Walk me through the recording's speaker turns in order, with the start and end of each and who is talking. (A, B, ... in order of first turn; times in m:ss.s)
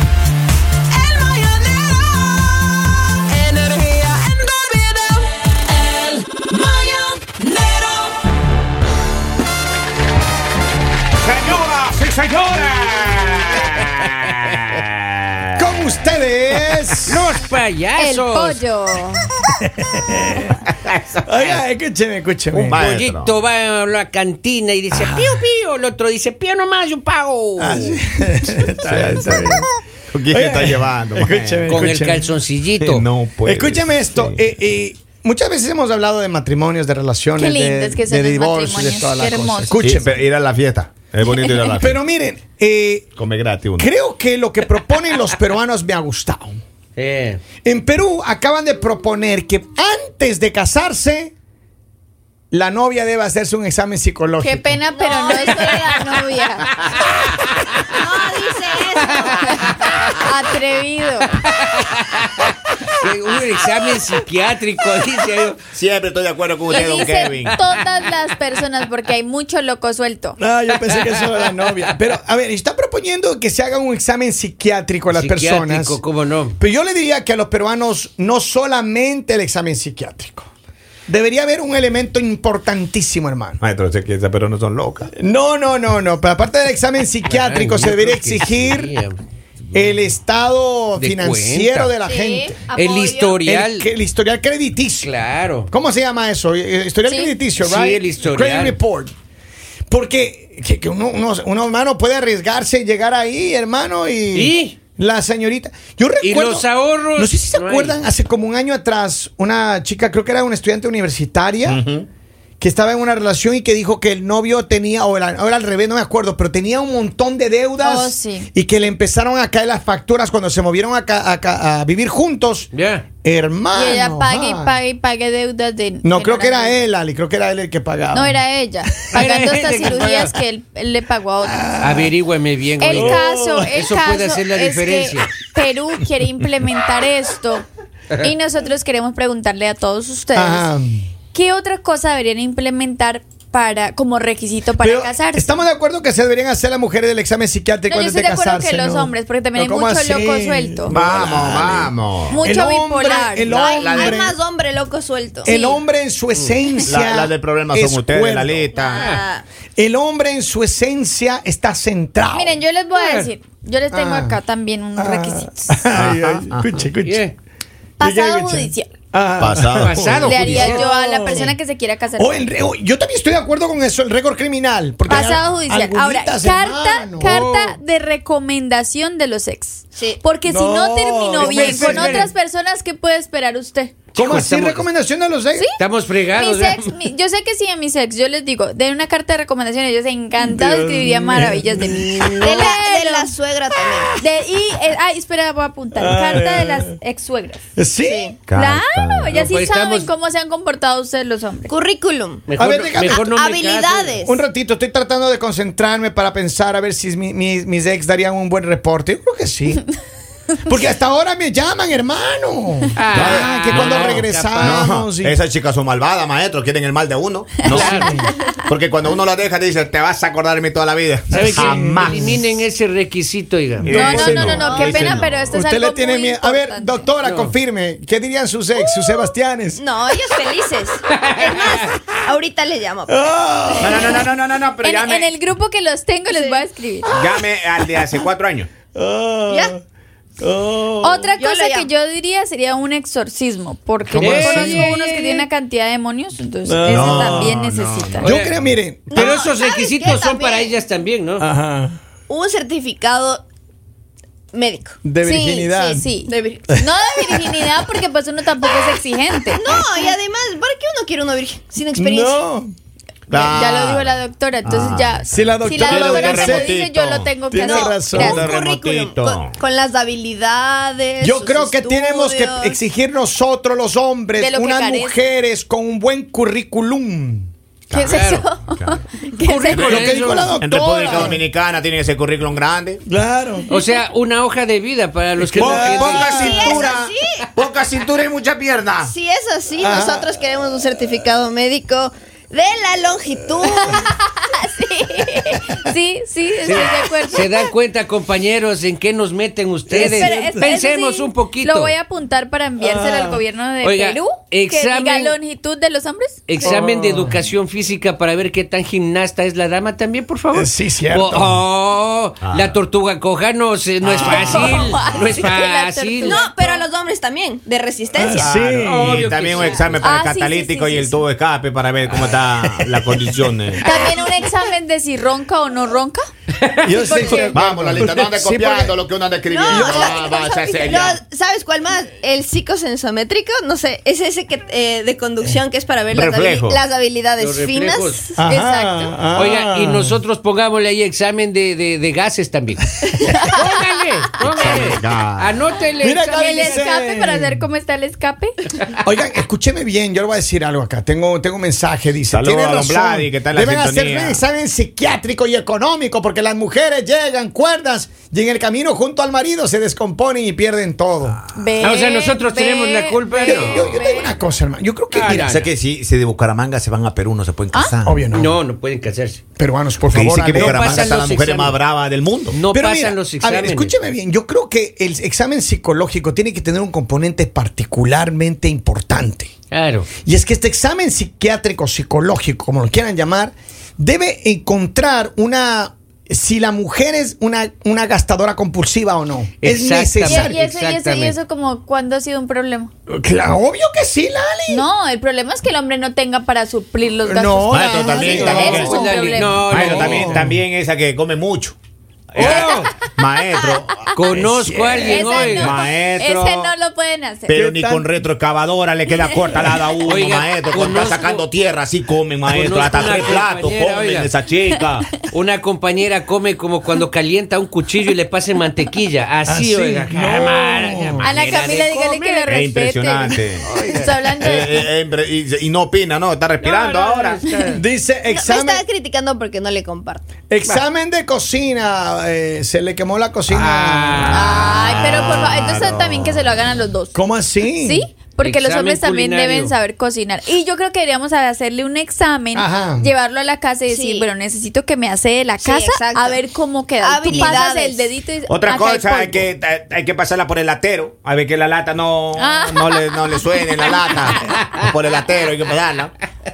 0:00.9-0:02.5 A
0:03.3-0:08.1 A
0:11.2-0:16.0 B
0:15.6-0:17.3 C
0:17.0-0:18.6 A
0:18.0-0:19.3 D
0:19.6-0:20.5 C
0:20.7-0:21.6 B
0:21.3-0:22.9 C
0:22.6-0:23.4 B
0:22.7-0:28.0 A
0:27.6-0:29.6 C
0:28.8-0:31.8 B
0:30.3-0:32.3 C
0:31.7-0:33.0 A
0:32.8-0:34.4 B
0:33.4-0:40.1 C
0:37.4-0:39.7 D
0:39.8-0:42.0 B
0:41.7-0:43.1 C
0:43.2-0:43.9 B
0:43.8-0:46.6 C
0:47.0-0:47.4 A
0:47.6-0:51.3 C
0:52.5-0:54.8 C
0:54.4-0:56.7 D
0:54.9-0:56.0 E
0:57.8-0:59.6 E
0:59.2-0:59.9 A
0:59.9-1:01.4 D
1:01.4-1:05.6 A
1:05.7-1:07.6 B
1:06.7-1:10.4 D
1:06.8-1:07.6 A
1:10.4-1:16.0 C
1:15.1-1:16.6 A
1:16.6-1:20.5 C
1:21.1-1:23.6 C
1:23.6-1:25.1 B
1:25.1-1:29.0 C
1:27.3-1:29.2 A
1:29.7-1:32.6 C
1:30.9-1:32.0 A
1:32.0-1:33.4 E
1:32.7-1:33.9 A
1:33.4-1:35.1 C
1:35.0-1:35.7 A
1:35.7-1:39.1 C
1:37.1-1:37.3 D
1:37.6-1:38.8 A
1:39.9-1:51.8 C
1:44.3-1:44.8 A
1:46.2-1:48.0 A
1:51.6-1:52.0 B
1:52.6-2:02.7 C
1:57.8-1:58.5 D
2:02.7-2:03.0 A
2:03.2-2:04.8 C
2:03.7-2:06.8 D
2:06.0-2:08.4 C
2:08.1-2:11.7 D
2:09.1-2:10.3 A
2:11.4-2:12.1 C
2:11.8-2:15.3 A
2:12.8-2:17.7 D
2:12.9-2:13.8 C
2:18.2-2:20.6 D
2:20.3-2:21.1 C
2:21.3-2:25.6 D
2:24.8-2:34.4 C
2:27.9-2:30.9 D
2:30.9-2:32.4 B
2:32.3-2:33.5 D
2:33.4-2:35.6 E
2:33.5-2:34.2 B
2:35.4-2:38.7 C
2:35.5-2:35.8 D
2:36.8-2:39.1 B
2:38.7-2:39.4 E
2:38.9-2:39.2 A
2:39.8-2:42.6 C
2:42.3-2:45.8 D
2:42.9-2:43.3 A
2:43.9-2:44.4 C
2:45.0-2:47.2 C
2:45.9-2:46.7 B
2:47.0-2:47.3 A
2:48.0-2:48.9 D
2:48.0-2:51.5 C
2:49.4-2:50.8 B
2:49.8-2:50.9 A
2:50.2-2:52.5 D
2:52.2-2:57.5 C
2:55.1-3:04.0 D
2:57.2-2:57.8 A
3:00.4-3:02.3 C
3:01.4-3:02.3 A
3:04.1-3:04.9 A
3:04.2-3:05.7 C
3:05.8-3:06.9 A
3:06.3-3:13.3 D
3:10.4-3:12.7 C
3:12.4-3:14.1 E
3:13.9-3:14.2 C
3:14.2-3:17.6 D
3:15.9-3:17.0 C
3:17.8-3:18.3 C
3:18.0-3:18.4 E
3:18.5-3:19.4 B
3:18.5-3:21.7 D
3:19.3-3:20.1 A
3:21.7-3:22.5 E
3:22.5-3:24.2 A
3:22.6-3:23.2 C
3:23.1-3:24.4 E
3:24.2-3:29.8 C
3:30.6-3:35.4 C
3:33.0-3:34.8 A
3:33.1-3:38.0 B
3:37.6-3:38.2 A
3:37.6-3:38.3 C
3:37.8-3:38.4 D
3:38.6-3:42.4 B
3:41.3-3:42.4 C
3:41.3-3:44.1 A
3:43.8-3:45.5 B
3:43.8-3:49.8 C
3:43.9-3:47.0 D
3:44.5-3:45.1 E
3:47.2-3:47.5 A
3:48.8-3:53.3 E
3:51.2-3:51.9 A
3:53.1-3:54.2 C
3:53.8-3:55.3 B
3:54.8-3:57.2 D
3:56.3-3:56.6 E
3:57.1-3:58.7 B
3:58.9-3:59.8 C
3:59.5-3:59.7 E
4:00.4-4:01.3 C
4:01.0-4:08.3 D
4:01.3-4:01.9 E
4:04.0-4:04.9 C
4:04.2-4:05.4 A
4:06.6-4:07.6 C
4:06.8-4:08.6 B
4:08.1-4:09.4 C
4:08.2-4:08.5 A
4:09.1-4:10.8 E
4:09.1-4:11.4 A
4:11.4-4:12.0 C
4:12.3-4:13.4 E
4:14.5-4:15.0 E
4:15.0-4:16.1 C
4:15.2-4:19.6 D
4:16.3-4:16.8 E
4:19.5-4:22.4 E
4:22.0-4:22.7 C
4:23.3-4:27.4 B
4:23.3-4:28.4 D
4:25.3-4:26.7 C
4:27.5-4:28.4 C
4:27.6-4:32.8 E
4:28.2-4:29.6 B
4:31.2-4:38.2 C
4:34.4-4:35.2 D
4:37.9-4:40.3 D
4:38.0-4:38.4 A
4:38.7-4:39.0 B
4:39.4-4:40.6 A
4:39.7-4:41.4 C
4:39.7-4:43.0 B
4:43.0-4:43.7 C
4:43.7-4:46.4 A
4:45.4-4:46.8 C
4:45.5-4:49.1 B
4:46.0-4:47.4 E
4:49.0-4:54.0 E
4:49.8-4:50.4 C
4:53.6-4:57.6 D
4:56.6-5:01.9 A
4:59.9-5:00.7 C
4:59.9-5:06.4 D
5:02.8-5:03.4 C
5:03.8-5:05.4 A
5:06.5-5:16.4 A
5:06.6-5:07.4 C
5:10.5-5:11.6 C
5:12.4-5:12.8 B
5:14.0-5:14.9 B
5:14.2-5:16.8 D
5:16.2-5:18.6 E
5:18.1-5:19.2 C
5:18.4-5:23.9 B
5:18.8-5:20.1 A
5:20.0-5:21.2 D
5:22.2-5:23.2 C
5:23.8-5:26.2 D
5:26.6-5:27.1 A
5:26.8-5:29.0 C
5:27.1-5:27.5 E
5:27.5-5:31.2 B
5:29.5-5:38.3 E
5:29.7-5:30.1 C
5:36.1-5:36.8 B
5:37.3-5:38.3 A
5:38.4-5:40.2 C
5:38.4-5:39.2 D
5:39.3-5:46.8 A
5:43.3-5:43.6 D
5:44.4-5:45.6 B
5:46.0-5:47.6 C
5:46.3-5:48.6 D
5:49.0-6:01.4 C
5:52.3-5:54.4 B
6:01.5-6:04.3 D
6:01.8-6:04.0 A
6:03.4-6:05.5 C
6:05.1-6:05.7 A
6:05.4-6:08.3 B
6:08.0-6:08.5 C
6:08.3-6:09.4 A
6:09.6-6:11.0 C
6:10.1-6:12.6 B
6:10.5-6:11.8 A
6:12.5-6:13.9 A
6:12.7-6:19.5 C
6:19.7-6:20.1 A
6:20.2-6:30.6 C
6:29.6-6:31.4 A
6:30.2-6:32.9 D
6:33.1-6:34.9 C
6:34.7-6:40.0 D
6:37.2-6:40.6 C
6:37.7-6:39.0 B
6:38.4-6:40.4 A
6:39.7-6:41.8 B
6:42.3-6:44.0 B
6:42.4-6:42.9 A
6:42.4-6:44.1 D
6:44.1-6:45.8 A
6:44.3-6:45.5 C
6:45.0-6:47.6 D
6:45.5-6:46.7 B
6:47.5-6:55.2 B
6:47.5-6:48.1 C
6:50.0-6:51.4 A
6:52.4-6:54.3 A
6:55.2-7:02.5 A
6:59.4-7:01.3 C
7:01.2-7:04.8 D
7:02.5-7:03.7 B
7:03.6-7:04.3 A
7:04.4-7:07.4 B
7:06.6-7:07.8 A
7:07.7-7:08.8 C
7:08.3-7:10.2 E
7:10.5-7:14.5 C
7:13.5-7:14.6 A
7:14.3-7:17.2 D
7:14.3-7:16.5 B
7:17.1-7:18.0 C
7:17.7-7:29.5 D
7:18.4-7:19.7 A
7:22.5-7:23.1 C
7:23.9-7:24.3 E
7:25.6-7:26.4 E
7:27.0-7:28.1 E
7:28.5-7:36.1 B
7:32.4-7:33.4 D